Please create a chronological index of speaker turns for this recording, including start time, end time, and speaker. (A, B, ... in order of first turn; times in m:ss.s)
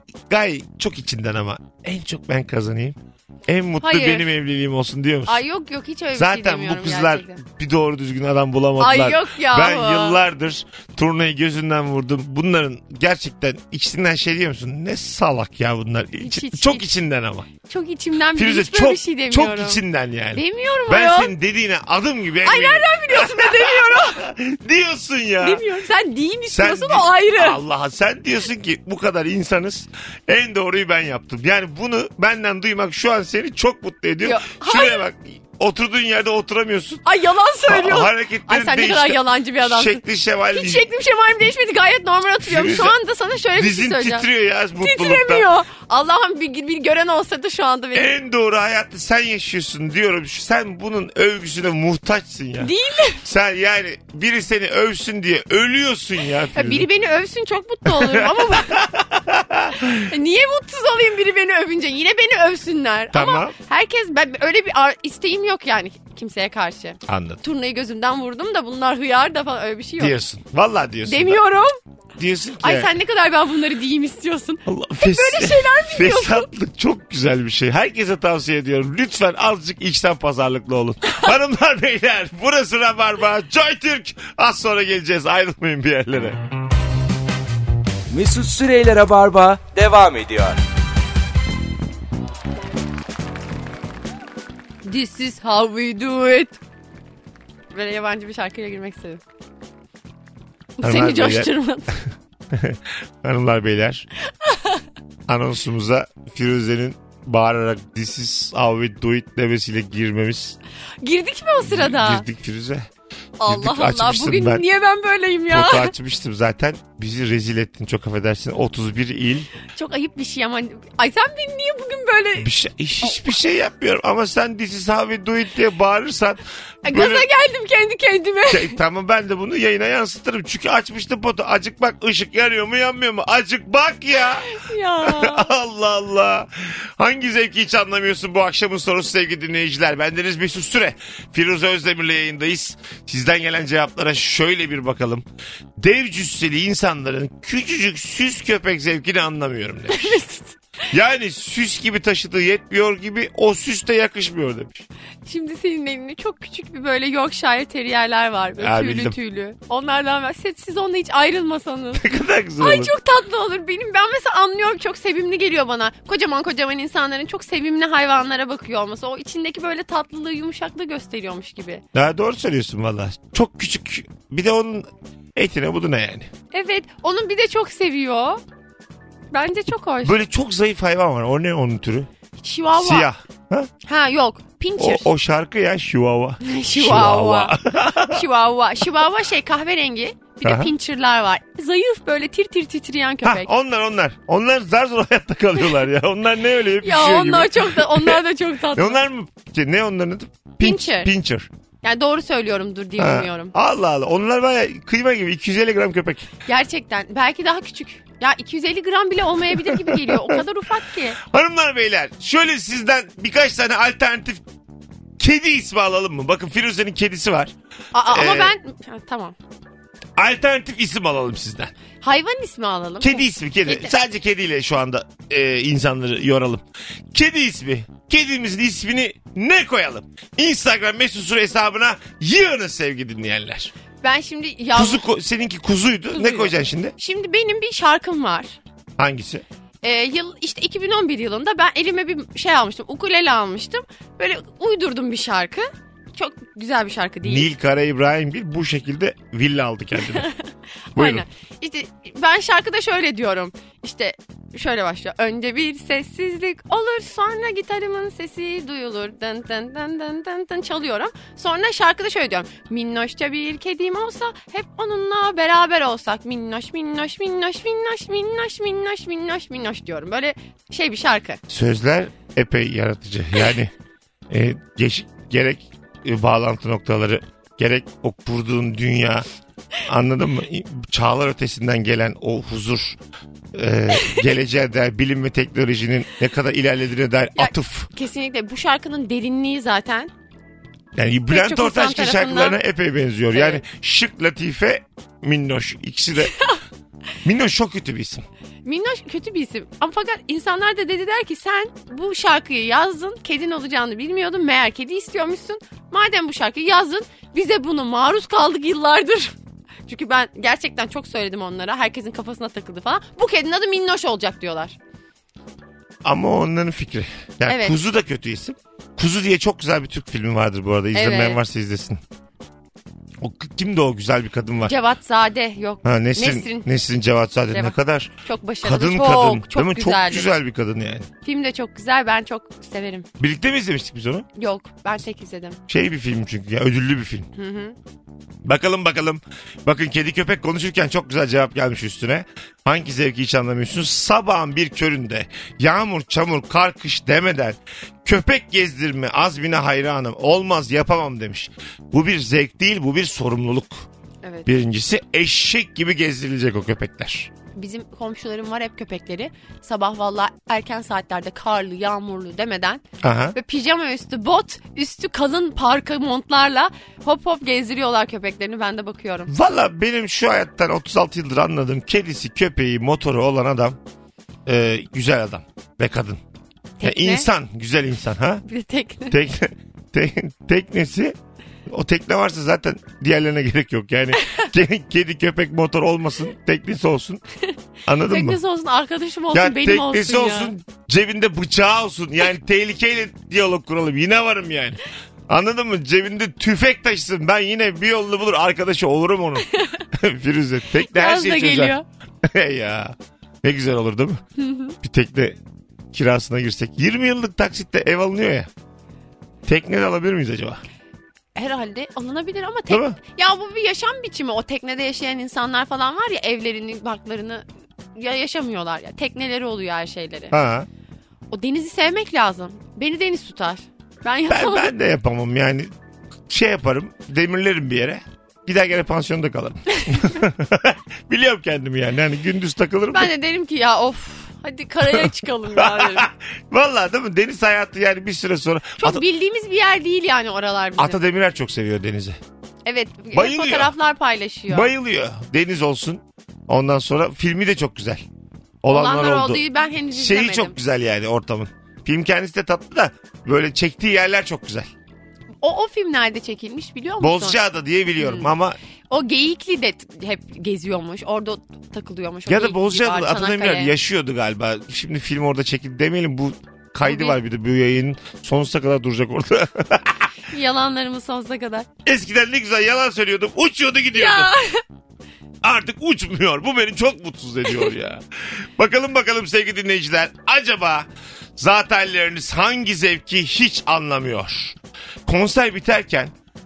0:00.3-0:05.4 A
0:03.8-0:04.3 B
0:05.3-0:07.4 B
0:06.1-0:17.5 A
0:08.8-0:10.2 B
0:16.2-0:16.8 B
0:17.6-0:19.8 B
0:18.3-0:25.6 A
0:20.3-0:21.3 B
0:22.4-0:24.2 B
0:25.4-0:27.6 B
0:26.5-0:37.0 A
0:34.2-0:35.0 B
0:37.0-0:44.2 B
0:37.6-0:40.9 A
0:42.4-0:43.0 A
0:43.5-0:45.5 A
0:44.8-0:48.1 B
0:47.9-0:56.9 A
0:52.6-0:53.2 B
0:56.5-0:58.8 B
0:57.9-1:00.1 A
0:59.8-1:10.2 B
1:03.1-1:03.5 A
1:07.1-1:07.4 A
1:10.0-1:11.4 A
1:11.0-1:11.8 B
1:12.2-1:12.9 A
1:12.6-1:16.5 B
1:14.6-1:26.4 A
1:28.1-1:30.6 C
1:34.8-1:36.6 B
1:37.7-1:39.2 B
1:40.8-1:41.9 B
1:40.8-1:41.5 A
1:42.5-1:44.1 A
1:44.4-1:44.8 B
1:45.3-1:50.6 A
1:51.0-1:52.2 B
1:51.6-1:52.9 A
1:53.4-1:55.9 B
1:53.5-1:54.6 A
1:55.5-1:59.5 A
1:59.7-2:02.5 B
2:02.4-2:07.3 A
2:06.8-2:08.8 B
2:08.5-2:25.2 A
2:14.4-2:15.5 B
2:25.8-2:30.2 A
2:29.9-2:30.6 B
2:30.9-2:34.9 A
2:35.2-2:42.0 B
2:38.6-2:39.2 A
2:42.0-2:42.9 A
2:42.6-2:51.8 B
2:51.9-2:56.3 A
2:56.5-2:58.4 B
2:59.3-3:00.2 B
3:00.0-3:02.1 A
3:02.4-3:03.1 B
3:02.8-3:03.7 A
3:03.8-3:05.1 B
3:04.8-3:08.2 A
3:06.4-3:13.5 B
3:10.4-3:10.7 A
3:13.2-3:18.2 A
3:16.8-3:19.0 B
3:18.7-3:21.5 A
3:20.6-3:21.1 B
3:21.8-3:23.5 B
3:23.0-3:26.3 A
3:26.5-3:31.2 B
3:29.5-3:30.4 A
3:31.2-3:34.4 A
3:35.2-3:37.5 A
3:37.9-3:39.3 B
3:38.0-3:38.5 A
3:40.2-3:41.7 A
3:42.0-3:44.0 B
3:43.0-3:53.7 A
3:54.0-3:55.0 B
3:54.8-3:56.9 A
3:56.1-3:58.6 B
3:59.0-3:59.4 A
3:59.8-4:07.5 B
4:07.2-4:10.3 A
4:10.1-4:10.4 B
4:11.0-4:11.2 A
4:11.0-4:31.4 B
4:31.5-4:33.7 A
4:34.3-4:39.2 A
4:39.8-4:43.0 A
4:43.5-4:47.9 A
4:47.4-4:50.1 B
4:51.0-4:56.4 A
4:51.3-4:52.6 B
4:53.3-4:53.6 B
4:57.2-4:58.2 A
4:58.6-5:09.3 B
5:09.8-5:14.8 B
5:16.0-5:22.0 A
5:17.5-5:17.8 B
5:20.9-5:21.4 B
5:23.2-5:24.8 A
5:24.6-5:26.7 B
5:25.8-5:28.1 A
5:27.5-5:30.3 B
5:28.6-5:31.1 A
5:31.2-5:33.1 B
5:33.2-5:34.3 A
5:34.4-5:35.6 B
5:35.7-5:37.3 A
5:37.3-5:37.8 B
5:38.4-5:53.8 A
5:54.5-5:57.3 A
5:57.5-6:09.3 B
6:03.0-6:03.4 A
6:09.3-6:13.8 A
6:14.5-6:16.2 A
6:16.8-6:17.3 B
6:16.8-6:18.4 A
6:18.5-6:19.2 B
6:19.1-6:27.2 A
6:24.2-6:24.5 B
6:27.8-6:28.4 A
6:28.0-6:30.5 B
6:29.3-6:44.2 A
6:40.8-6:41.8 B
6:44.4-6:44.8 B
6:44.8-6:45.4 A
6:45.9-6:48.5 A
6:49.5-6:50.6 A
6:51.3-7:00.3 B
6:52.7-6:53.0 A
7:00.3-7:00.7 A
7:01.3-7:04.7 B
7:04.3-7:05.7 A
7:06.3-7:13.1 A
7:09.7-7:10.0 B
7:12.9-7:16.1 B
7:14.9-7:19.0 A
7:18.8-7:21.0 B
7:20.8-7:22.2 A
7:22.7-7:24.7 B
7:23.1-7:23.7 A
7:24.5-7:28.0 A
7:28.6-7:34.7 A
7:28.7-7:30.6 B
7:35.4-7:37.4 B
7:37.0-7:38.6 A
7:38.0-7:38.3 B
7:38.9-7:43.7 B
7:42.3-7:50.1 A
7:46.8-7:47.2 B
7:50.3-7:51.7 B
7:51.8-7:54.3 A
7:53.9-7:54.6 B
7:55.4-8:06.1 A